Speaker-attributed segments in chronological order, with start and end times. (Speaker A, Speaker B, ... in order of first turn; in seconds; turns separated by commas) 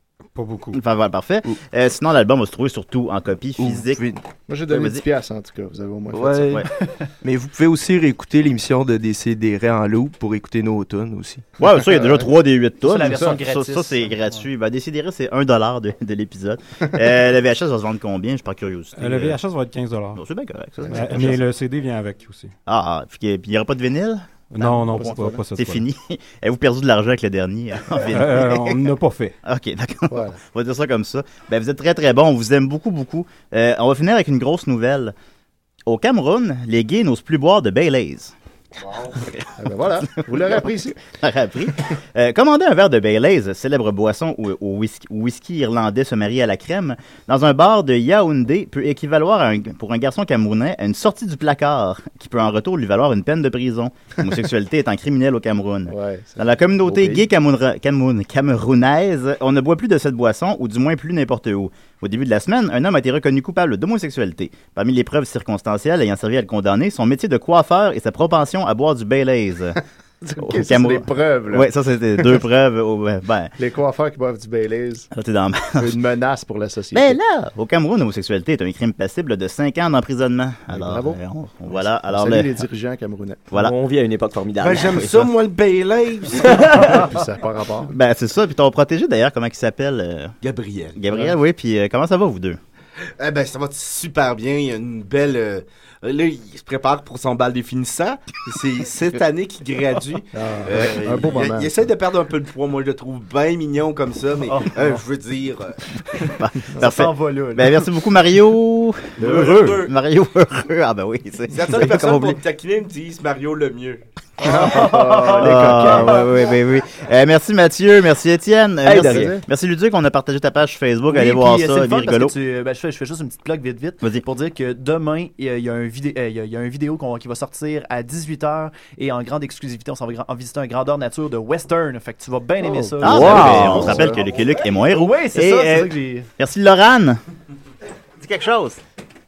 Speaker A: 0.3-0.8, Speaker B: 0.7-4.0, Speaker C: 3.6-4.2, Speaker D: 4.5-6.7, Speaker B: 4.7-5.0, Speaker C: 6.2-6.5, Speaker C: 7.2-11.4, Speaker B: 11.6-19.4, Speaker D: 11.8-12.2, Speaker E: 12.8-14.4, Speaker A: 19.0-20.2, Speaker B: 20.2-21.4, Speaker D: 20.8-21.3, Speaker A: 20.9-22.5, Speaker B: 22.7-28.8, Speaker A: 24.5-25.8, Speaker D: 24.9-25.4, Speaker A: 28.1-29.4, Speaker B: 29.4-35.1, Speaker D: 30.1-30.4, Speaker B: 35.9-38.3, Speaker F: 38.8-39.2, Speaker D: 39.6-41.0, Speaker B: 40.2-40.5, Speaker B: 41.1-69.8, Speaker D: 55.9-57.3, Speaker D: 70.2-72.4, Speaker B: 70.5-73.5, Speaker D: 73.6-75.1, Speaker B: 75.1-75.9, Speaker D: 75.8-77.2, Speaker B: 76.9-82.5, Speaker D: 80.7-83.4, Speaker G: 83.5-85.0, Speaker F: 84.6-87.0, Speaker B: 84.9-85.3, Speaker D: 86.5-87.9, Speaker B: 87.9-90.4, Speaker F: 90.4-91.0, Speaker B: 91.0-92.6, Speaker F: 93.2-105.8, Speaker D: 100.3-101.8, Speaker B: 106.4-112.4, Speaker E: 106.8-107.9, Speaker F: 109.2-109.9, Speaker D: 109.2-109.7, Speaker F: 111.5-114.0, Speaker D: 114.4-116.2, Speaker E: 114.4-116.3, Speaker B: 115.3-122.3, Speaker G: 118.8-119.4, Speaker D: 119.0-119.4, Speaker E: 121.1-134.1, Speaker D: 132.6-134.2, Speaker B: 133.0-137.2, Speaker G: 133.0-134.0, Speaker E: 134.7-136.3, Speaker B: 138.2-138.8